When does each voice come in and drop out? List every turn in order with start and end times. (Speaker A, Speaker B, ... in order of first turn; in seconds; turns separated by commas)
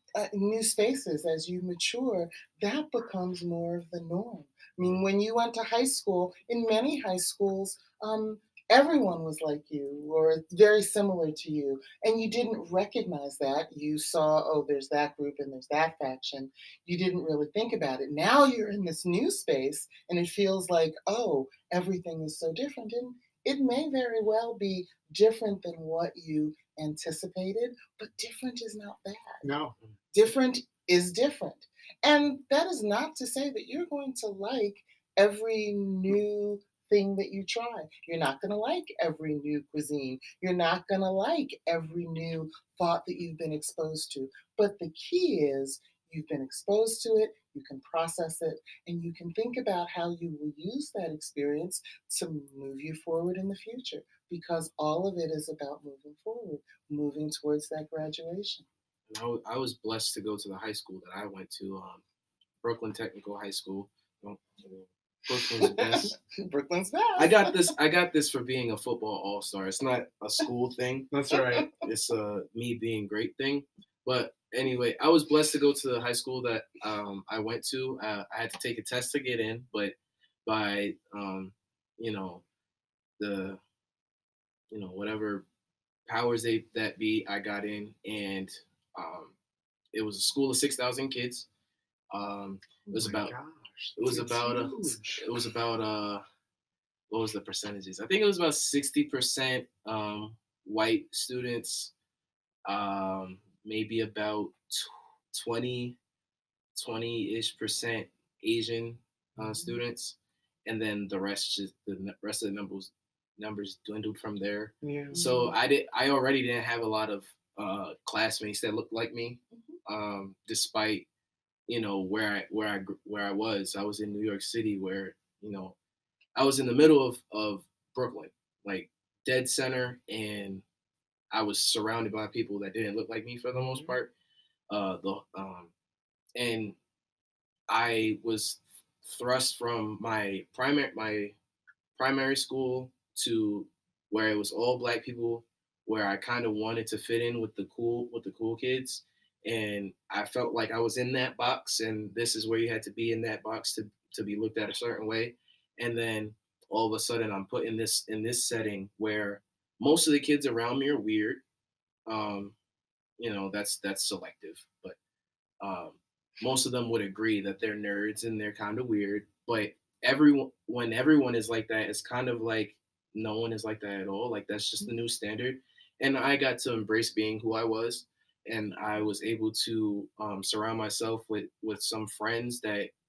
Speaker A: 0.1-29.4, Speaker B: 29.4-29.7, Speaker A: 30.1-58.6, Speaker C: 59.1-62.0, Speaker C: 62.6-66.2, Speaker A: 65.6-67.7, Speaker C: 67.2-71.1, Speaker B: 71.1-71.7, Speaker A: 71.3-71.7, Speaker C: 71.8-82.4, Speaker C: 83.2-83.6, Speaker C: 84.7-85.4, Speaker C: 86.1-89.3, Speaker C: 89.9-91.5, Speaker C: 92.1-93.3, Speaker B: 92.9-95.3, Speaker C: 94.0-96.2, Speaker C: 97.1-101.9, Speaker C: 102.6-106.0, Speaker C: 106.8-121.0, Speaker B: 109.4-109.7, Speaker B: 114.8-115.2, Speaker A: 115.1-115.5, Speaker C: 121.7-125.8, Speaker C: 126.3-130.6, Speaker C: 131.3-134.1, Speaker B: 133.5-133.9, Speaker C: 134.7-135.7, Speaker C: 136.3-136.8, Speaker C: 137.7-141.3, Speaker C: 141.9-161.4, Speaker C: 162.1-162.6, Speaker C: 163.2-165.0, Speaker C: 165.6-182.9